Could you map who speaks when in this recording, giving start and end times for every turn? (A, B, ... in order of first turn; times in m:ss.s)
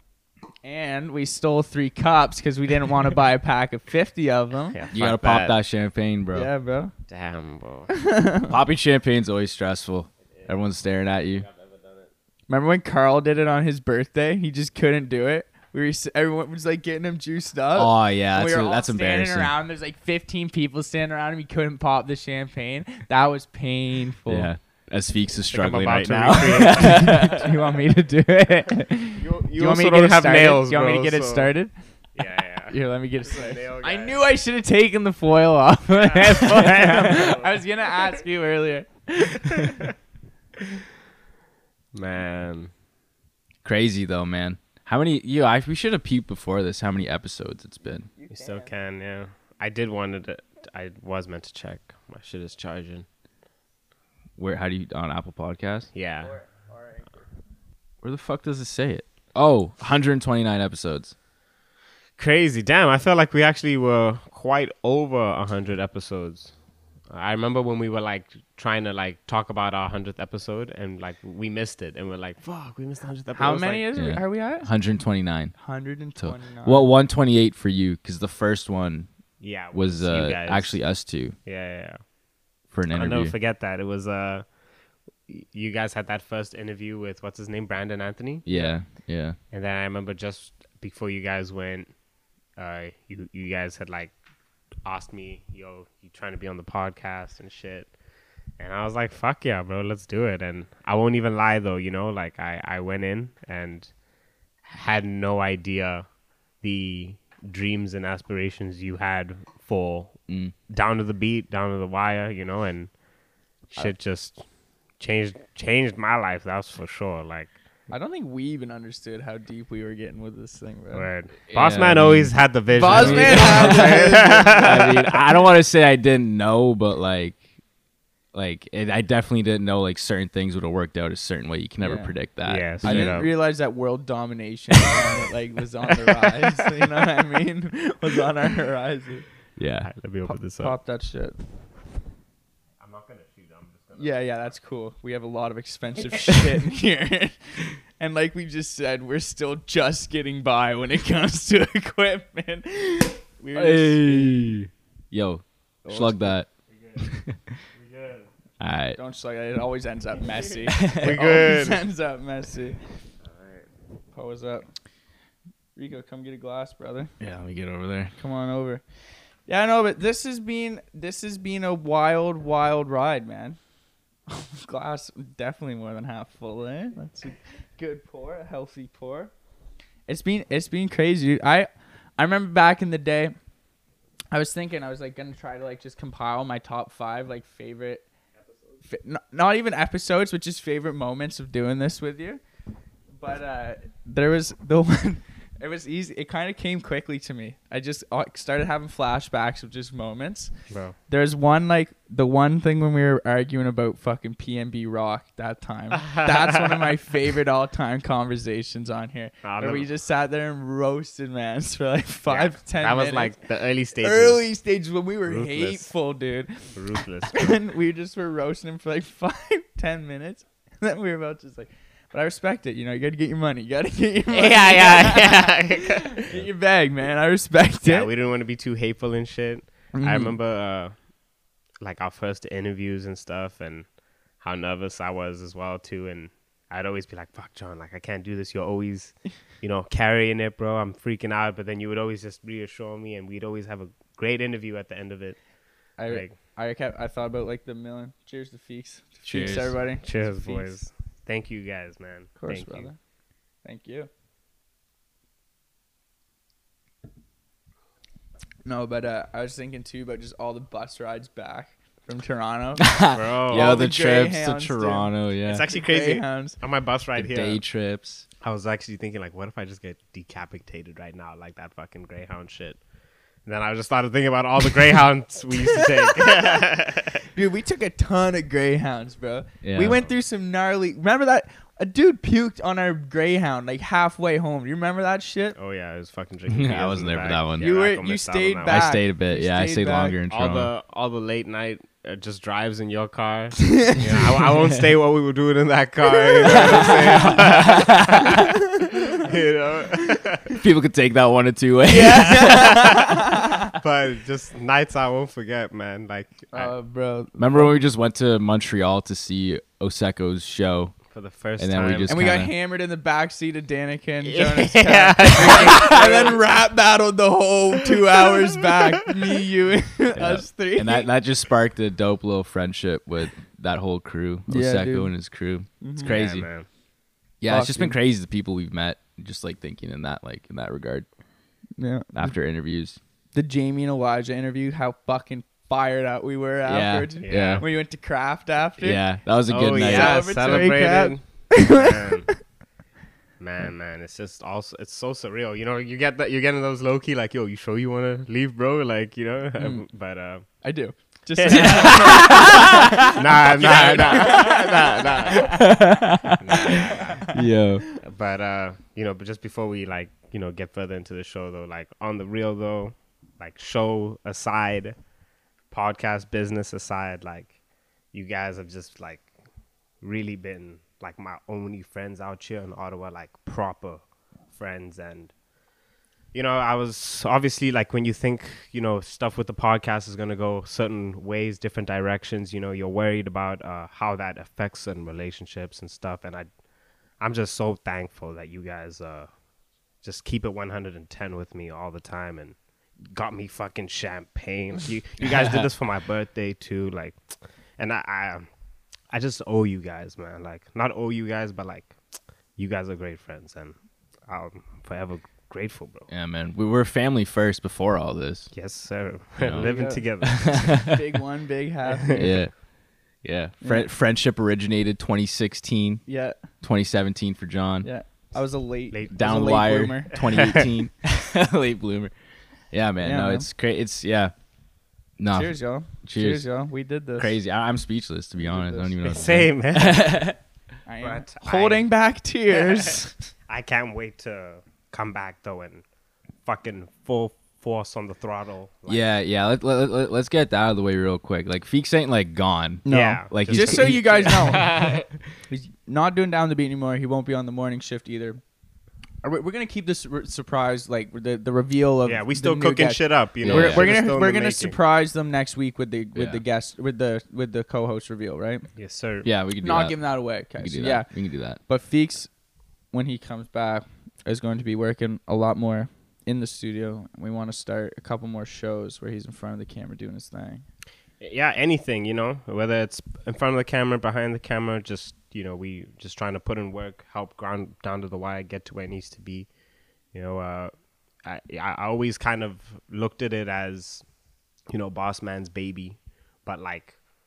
0:00.6-0:04.8 A
0:04.7-0:05.6 B
0:04.9-0:06.5 C
0:06.3-0:06.9 A
0:07.1-0:07.9 B
0:07.9-0:08.5 A
0:08.5-0:11.4 C
0:10.3-0:10.7 B
0:11.2-0:12.1 B
0:12.5-0:24.5 A
0:17.7-0:19.5 C
0:24.3-0:27.4 C
0:25.5-0:27.4 B
0:26.8-0:31.8 A
0:29.2-0:31.5 B
0:32.1-0:34.2 B
0:32.7-0:39.8 A
0:36.0-0:38.1 B
0:39.5-0:39.9 B
0:41.9-0:42.7 B
0:43.6-0:48.1 C
0:48.1-0:48.7 A
0:48.3-0:53.0 B
0:54.4-0:55.9 C
0:55.9-0:56.3 B
0:56.2-0:57.2 A
0:58.0-1:01.1 C
1:02.2-1:06.5 B
1:07.1-1:13.8 B
1:13.3-1:14.7 A
1:13.9-1:15.6 C
1:15.6-1:16.9 A
1:16.1-1:19.1 C
1:19.4-1:20.9 B
1:19.7-1:21.4 C
1:21.4-1:22.0 B
1:22.7-1:23.3 C
1:22.9-1:24.4 B
1:25.3-1:31.9 B
1:28.4-1:29.4 C
1:32.6-1:34.1 B
1:34.8-1:37.9 B
1:38.6-1:43.9 B
1:44.7-1:46.0 B
1:46.6-1:52.9 B
1:50.3-1:50.5 C
1:53.7-1:54.4 B
1:55.0-1:57.5 B
1:57.9-2:01.1 A
2:00.9-2:05.2 B
2:01.5-2:07.4 C
2:02.7-2:04.7 A
2:08.3-2:13.2 C
2:11.8-2:12.1 A
2:12.4-2:13.3 B
2:12.8-2:19.2 A
2:19.6-2:19.9 C
2:19.8-2:20.7 B
2:20.2-2:21.4 A
2:22.8-2:24.2 B
2:24.0-2:34.6 A
2:33.5-2:36.5 C
2:35.8-2:36.4 A
2:36.7-2:37.0 B
2:37.0-2:37.6 C
2:37.7-2:38.3 B
2:38.6-2:39.0 C
2:39.0-2:42.8 A
2:40.7-2:41.2 C
2:40.9-2:41.8 B
2:43.4-2:43.6 B
2:44.1-2:44.7 A
2:45.8-2:47.1 A
2:47.2-2:48.1 C
2:48.2-2:48.8 A
2:49.5-2:53.6 A
2:54.3-2:59.3 A
3:00.1-3:03.3 A
3:04.3-3:08.0 A
3:08.9-3:12.4 A
3:13.2-3:20.5 A
3:20.7-3:21.0 B
3:21.1-3:33.3 A
3:26.0-3:26.8 B
3:29.4-3:29.8 B
3:32.3-3:34.4 B
3:34.0-3:36.8 A
3:35.3-3:35.9 B
3:36.7-3:37.6 B
3:37.3-3:48.1 A
3:44.3-3:46.5 B
3:47.8-3:50.9 B
3:49.9-3:50.3 A
3:51.8-4:05.4 B
4:06.0-4:10.7 A
4:06.0-4:06.3 B
4:09.2-4:09.8 C
4:10.0-4:12.9 B
4:12.4-4:13.0 A
4:13.6-4:14.1 A
4:18.6-4:23.0 A
4:22.8-4:25.6 C
4:23.1-4:23.8 B
4:23.5-4:25.1 A
4:25.5-4:27.6 B
4:25.7-4:26.6 A
4:27.2-4:28.2 C
4:28.4-4:32.8 B
4:33.4-4:37.2 B
4:36.0-4:36.5 A
4:37.3-4:45.6 A
4:39.6-4:40.0 C
4:39.8-4:40.1 B
4:45.6-4:48.9 B
4:46.5-4:47.7 C
4:47.6-4:50.2 A
4:48.6-4:50.7 C
4:50.3-5:00.6 B
4:53.6-4:54.0 A
4:56.1-4:57.4 A
4:56.4-4:58.5 C
4:58.3-4:59.2 A
5:00.6-5:02.9 C
5:01.9-5:03.7 A
5:02.3-5:03.1 B
5:03.7-5:06.7 B
5:06.5-5:07.8 A
5:07.4-5:11.0 C
5:11.1-5:12.2 B
5:11.6-5:12.5 C
5:12.1-5:21.1 A
5:14.2-5:16.4 B
5:18.2-5:19.3 B
5:20.1-5:26.5 C
5:24.5-5:25.1 A
5:25.8-5:26.2 A
5:26.0-5:26.7 B
5:27.4-5:31.0 C
5:27.5-5:28.0 A
5:31.8-5:32.3 A
5:32.1-5:33.0 C
5:33.3-5:39.2 A
5:36.6-5:37.6 C
5:37.2-5:37.6 B
5:38.8-5:40.4 C
5:39.5-5:42.3 B
5:39.7-5:42.4 A
5:43.4-5:50.4 B
5:49.6-5:49.8 A
5:50.6-5:57.9 A
5:51.4-5:55.6 B
5:51.5-5:54.6 C
5:55.3-5:57.8 C
5:56.4-5:57.3 B
5:58.0-6:04.9 B
6:05.7-6:07.5 B
6:08.1-6:09.3 B
6:10.0-6:15.3 B
6:16.3-6:26.5 B
6:27.2-6:29.3 B
6:30.0-6:32.6 B
6:33.1-6:38.5 B
6:35.3-6:35.7 C
6:39.1-6:42.0 B
6:42.6-6:43.8 B
6:44.3-6:46.1 B
6:46.1-6:48.5 C
6:48.5-6:50.8 B
6:49.4-6:51.0 C
6:49.6-6:50.0 A
6:50.8-6:52.2 A
6:51.9-6:52.3 B
6:52.1-6:52.6 C
6:53.1-6:56.0 C
6:53.6-6:53.9 A
6:56.1-6:56.4 A
6:56.6-6:57.9 C
6:57.8-7:00.4 A
6:58.9-6:59.6 B
6:59.1-7:02.1 C
7:00.2-7:00.7 B
7:02.7-7:04.3 C
7:03.0-7:03.5 A
7:05.2-7:06.4 C
7:05.3-7:07.4 A
7:07.2-7:10.4 C
7:08.6-7:10.3 B
7:10.8-7:13.1 A
7:11.0-7:11.9 B
7:12.8-7:15.8 B
7:16.4-7:19.1 B
7:18.9-7:24.6 C
7:22.8-7:24.7 A
7:22.9-7:25.1 B
7:25.5-7:28.4 A
7:29.2-7:38.6 A
7:32.0-7:34.8 B
7:33.4-7:33.8 C
7:36.1-7:36.4 C
7:38.8-7:39.3 B
7:39.2-7:41.6 C
7:39.6-7:42.3 A
7:42.9-7:50.6 A
7:51.2-7:59.5 B
8:00.1-8:00.7 B
8:01.2-8:04.0 B
8:04.7-8:07.0 B